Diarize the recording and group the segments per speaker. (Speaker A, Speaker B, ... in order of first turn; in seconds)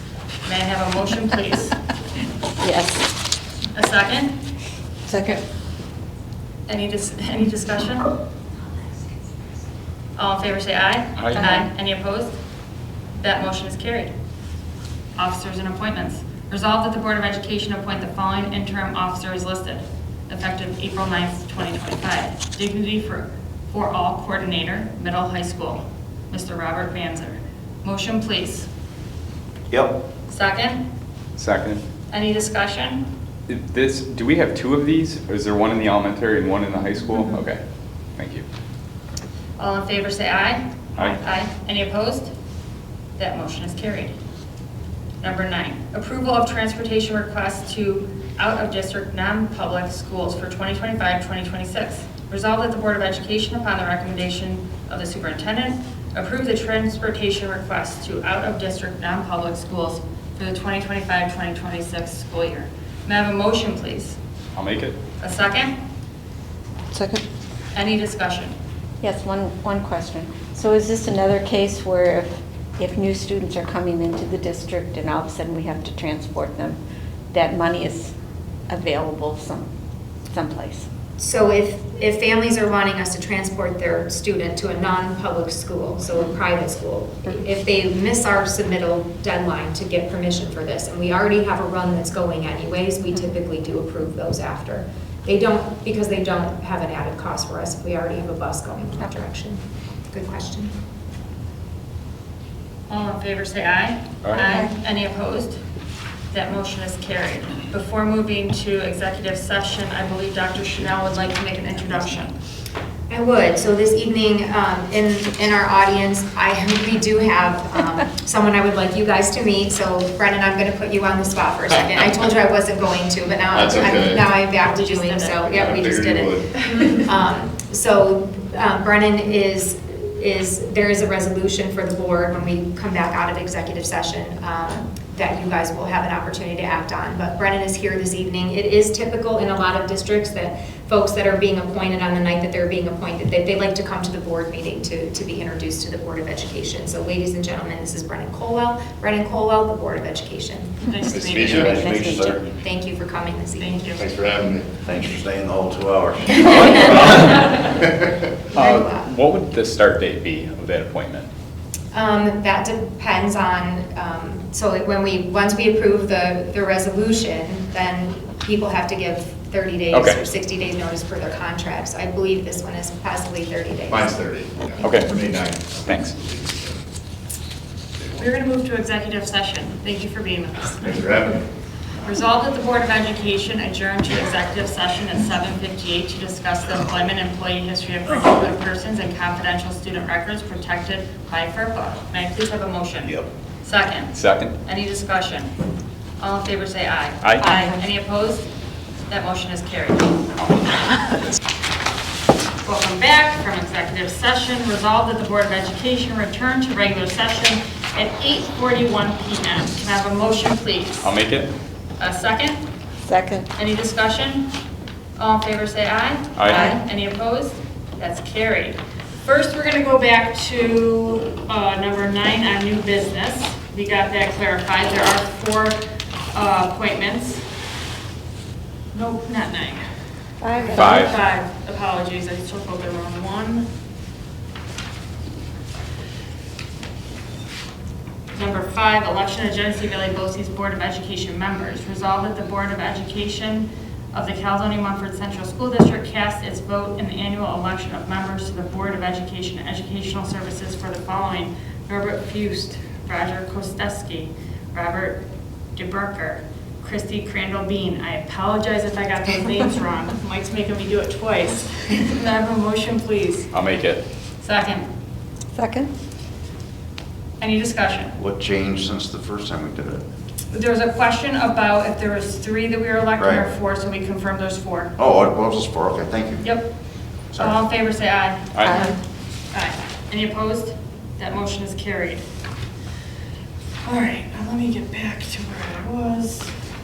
Speaker A: 0.5-1.8, 3.7-4.3, 6.7-8.1, 10.2-12.4, 13.2-14.1, 15.2-28.7, 30.3-30.8, 32.1-33.1, 39.6-42.3, 43.2-44.1, 45.2-64.2, 65.2-65.7, 67.7-68.5, 102.9-105.6, 106.3-112.3, 124.6-125.5, 150.9-151.9, 153.6-154.0, 178.2-181.1, 182.0-195.5, 196.2-198.5, 199.1-200.2, 202.6-211.1, 212.0-212.6, 213.6-214.5, 215.2-225.8, 226.3-227.4, 228.9-229.8, 230.6-233.7, 238.3-255.2, 255.8-263.5, 264.4-264.9, 267.4-268.1, 270.5-274.9, 276.4-276.7, 277.4-278.9, 279.5-282.2, 283.9-286.5
Speaker B: 2.6-3.1, 5.1-5.4, 69.0-76.8, 77.3-78.2, 78.7-79.7, 80.3-80.9, 151.6-152.4, 197.4-197.8, 213.1-213.5, 230.4-231.1, 265.5-265.9, 278.6-279.0
Speaker C: 11.2-11.6, 31.4-31.8, 33.5-37.6, 38.2-38.5, 64.5-65.0, 104.2-104.5, 158.5-161.3, 169.9-170.2, 174.8-175.2, 175.9-176.1, 194.1-194.6, 197.2-197.5, 211.0-211.5, 216.4-216.7, 230.8-231.1, 263.5-264.0, 278.5-278.8
Speaker D: 81.2-100.7, 113.1-150.8, 152.6-153.9, 158.6-159.1, 161.9-174.1
Speaker E: 123.5-124.3, 125.5-126.8, 151.1-151.8, 154.0-154.8, 173.9-176.8, 180.8-181.4
Speaker F: 151.3-152.5, 154.8-157.7, 193.0-193.3, 268.2-270.0, 273.2-273.5, 275.0-276.6, 277.3-277.6